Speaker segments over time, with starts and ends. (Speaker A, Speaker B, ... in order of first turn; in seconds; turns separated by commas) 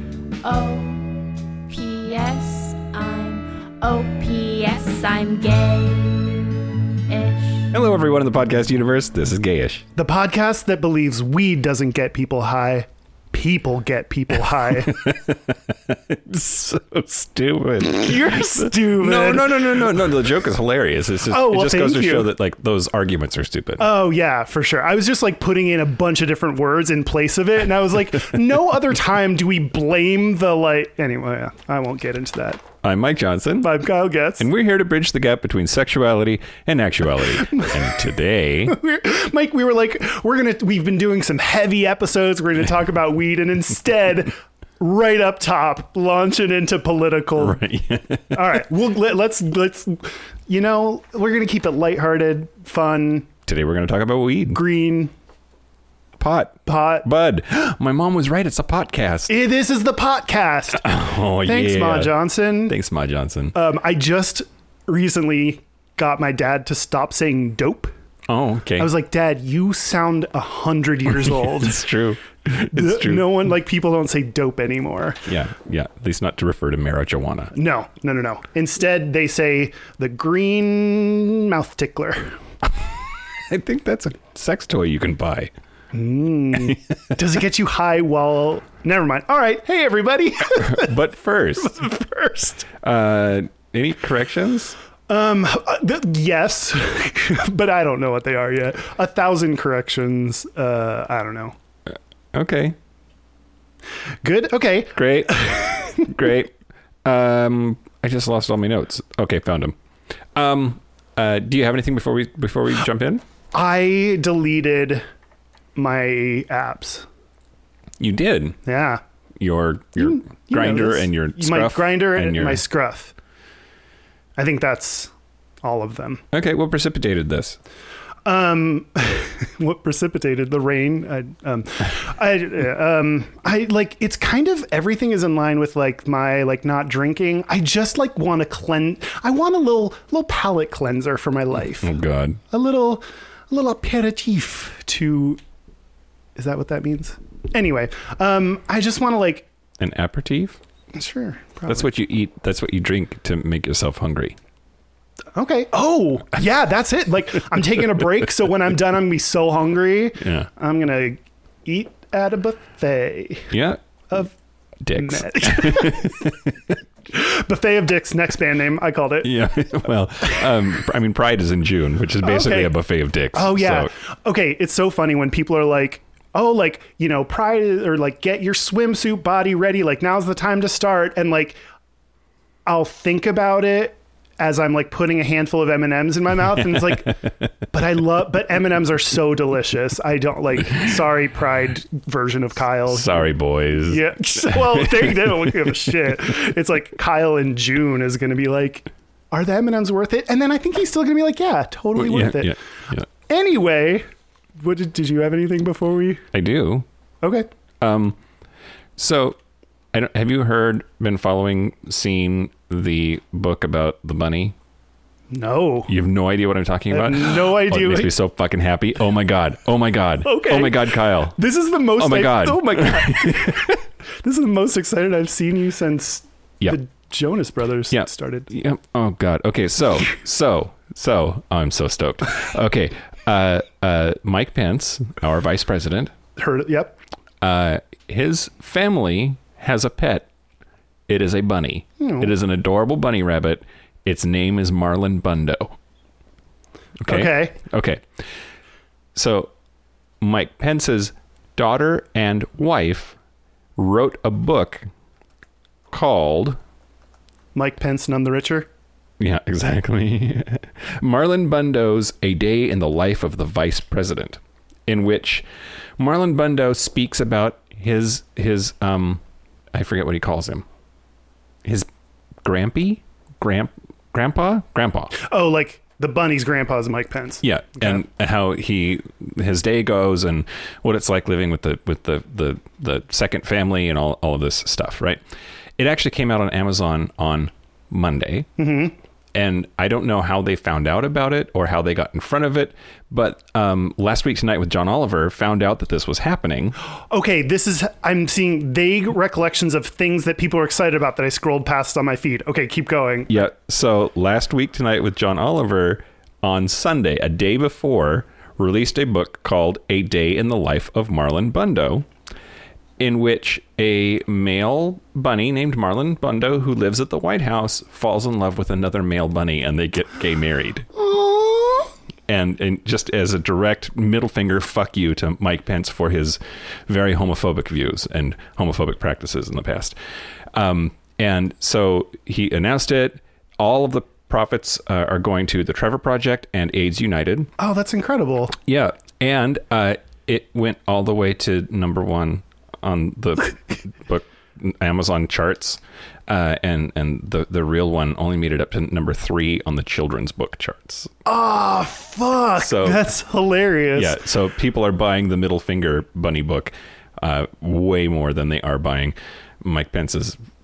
Speaker A: 0.4-6.5, Speaker A: 7.1-7.7, Speaker B: 7.7-9.8, Speaker C: 10.0-15.1, Speaker B: 14.9-23.9, Speaker C: 17.9-20.0, Speaker C: 21.3-22.3, Speaker C: 23.8-32.6, Speaker B: 32.8-33.8, Speaker C: 33.6-34.5, Speaker B: 34.4-38.8, Speaker C: 37.5-37.9, Speaker C: 38.7-47.6, Speaker B: 47.4-48.6, Speaker C: 48.3-53.3, Speaker B: 53.5-54.6, Speaker C: 54.5-55.1, Speaker B: 56.2-59.3, Speaker C: 56.7-57.1, Speaker C: 59.3-60.9, Speaker B: 60.7-63.5, Speaker C: 61.4-62.8, Speaker C: 63.5-67.9, Speaker B: 68.3-68.9, Speaker C: 68.8-71.8, Speaker B: 71.2-73.3, Speaker C: 72.7-75.3, Speaker B: 75.3-77.5, Speaker C: 77.5-82.4, Speaker B: 83.3-85.5, Speaker C: 85.9-90.9, Speaker B: 90.5-91.8, Speaker C: 91.6-92.7, Speaker B: 92.8-94.8, Speaker C: 95.1-101.5, Speaker B: 101.9-102.8, Speaker C: 104.2-106.1, Speaker B: 105.0-109.8, Speaker B: 110.3-113.2, Speaker C: 113.5-115.0, Speaker C: 115.8-117.1, Speaker B: 118.0-118.6, Speaker C: 118.7-119.0, Speaker B: 119.4-122.6, Speaker C: 120.0-123.1, Speaker C: 124.4-125.1, Speaker C: 125.6-126.2, Speaker B: 126.3-127.6, Speaker C: 128.2-142.0, Speaker B: 141.8-142.4, Speaker C: 142.5-145.4, Speaker C: 146.4-149.5, Speaker B: 149.8-150.6, Speaker C: 150.9-151.9, Speaker B: 151.7-154.4, Speaker C: 155.3-163.5, Speaker B: 160.2-160.5, Speaker B: 163.5-163.8, Speaker B: 164.8-166.5, Speaker C: 164.9-166.4, Speaker C: 167.1-169.6, Speaker B: 169.2-173.9, Speaker C: 172.2-172.8, Speaker C: 173.3-181.6, Speaker C: 182.7-193.2, Speaker B: 192.9-195.9, Speaker C: 193.9-202.6, Speaker B: 202.0-203.1, Speaker C: 203.3-204.1, Speaker C: 204.6-206.2, Speaker B: 206.3-206.9, Speaker C: 207.2-207.5, Speaker B: 207.8-208.2, Speaker B: 209.0-209.4, Speaker B: 209.9-214.6, Speaker C: 215.3-215.9, Speaker B: 215.9-221.4, Speaker C: 216.9-218.1, Speaker C: 220.2-228.5, Speaker B: 222.0-223.8, Speaker B: 227.9-236.1, Speaker C: 236.4-237.0, Speaker B: 237.4-240.3, Speaker B: 241.1-245.8, Speaker C: 242.0-242.3, Speaker B: 247.0-248.1, Speaker C: 247.1-247.6, Speaker B: 249.2-249.5, Speaker B: 250.2-253.2, Speaker B: 253.8-254.8, Speaker B: 255.9-256.6, Speaker C: 257.6-258.7, Speaker B: 259.2-265.4, Speaker B: 266.0-269.2, Speaker B: 269.7-270.6, Speaker B: 272.4-275.1, Speaker C: 275.1-278.0, Speaker B: 277.4-285.2, Speaker B: 285.8-288.5, Speaker C: 288.6-288.9, Speaker B: 289.3-296.8, Speaker C: 297.1-303.5, Speaker B: 303.3-312.1, Speaker B: 313.0-320.9, Speaker C: 321.0-321.9, Speaker B: 322.3-329.9, Speaker B: 330.5-337.5, Speaker C: 337.6-338.6, Speaker B: 338.6-351.1, Speaker C: 351.3-354.2, Speaker B: 352.6-353.1, Speaker B: 353.9-360.4